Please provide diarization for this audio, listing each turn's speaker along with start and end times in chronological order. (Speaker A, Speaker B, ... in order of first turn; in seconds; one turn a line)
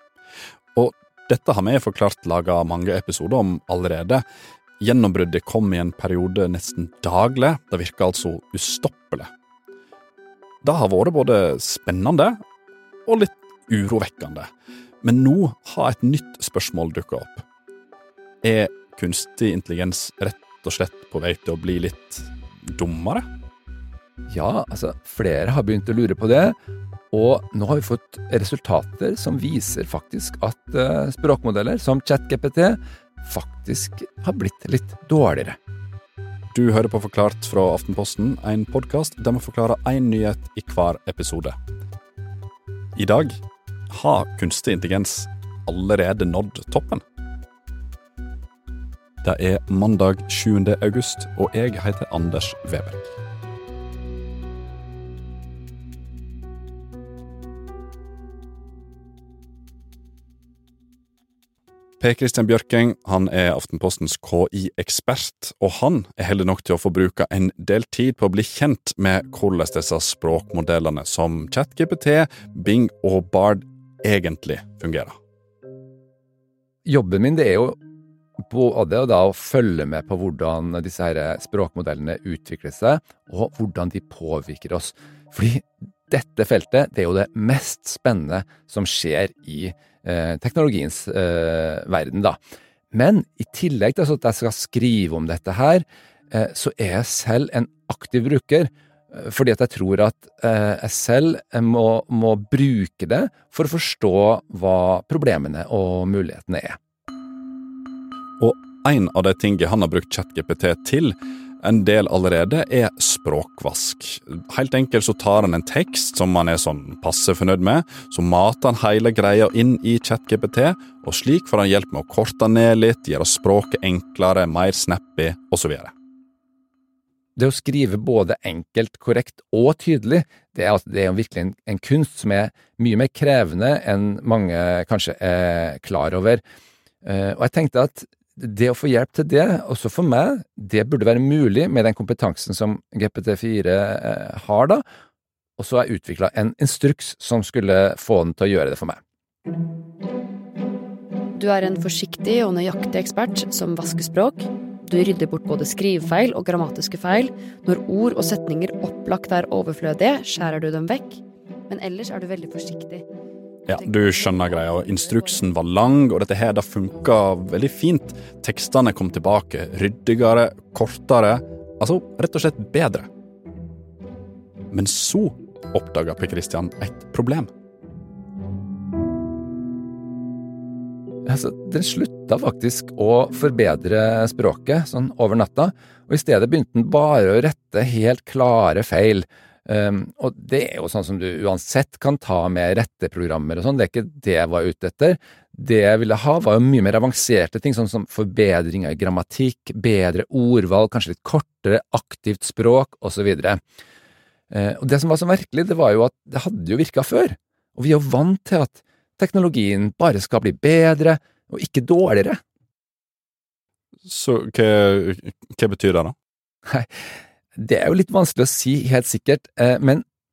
Speaker A: 0.7-4.2
Speaker A: 4.8-9.3
Speaker A: 10.6-12.4
Speaker A: 13.1-14.5
Speaker A: 15.0-17.4
Speaker A: 18.4-23.2
Speaker B: 24.3-26.6
Speaker B: 27.1-35.6
Speaker A: 36.5-41.5
Speaker A: 42.9-47.0
Speaker A: 49.2-53.1
Speaker A: 62.0-75.2
Speaker B: 76.8-77.8
Speaker B: 78.5-92.4
Speaker B: 92.9-106.8
Speaker A: 108.4-125.9
Speaker B: 127.4-136.4
Speaker B: 137.0-144.8
Speaker B: 145.6-149.0
Speaker C: 151.3-163.0
Speaker A: 163.7-173.1
Speaker A: 174.7-177.5
Speaker B: 181.3-203.6
Speaker B: 204.5-212.4
Speaker A: 214.0-216.1
Speaker B: 217.6-220.0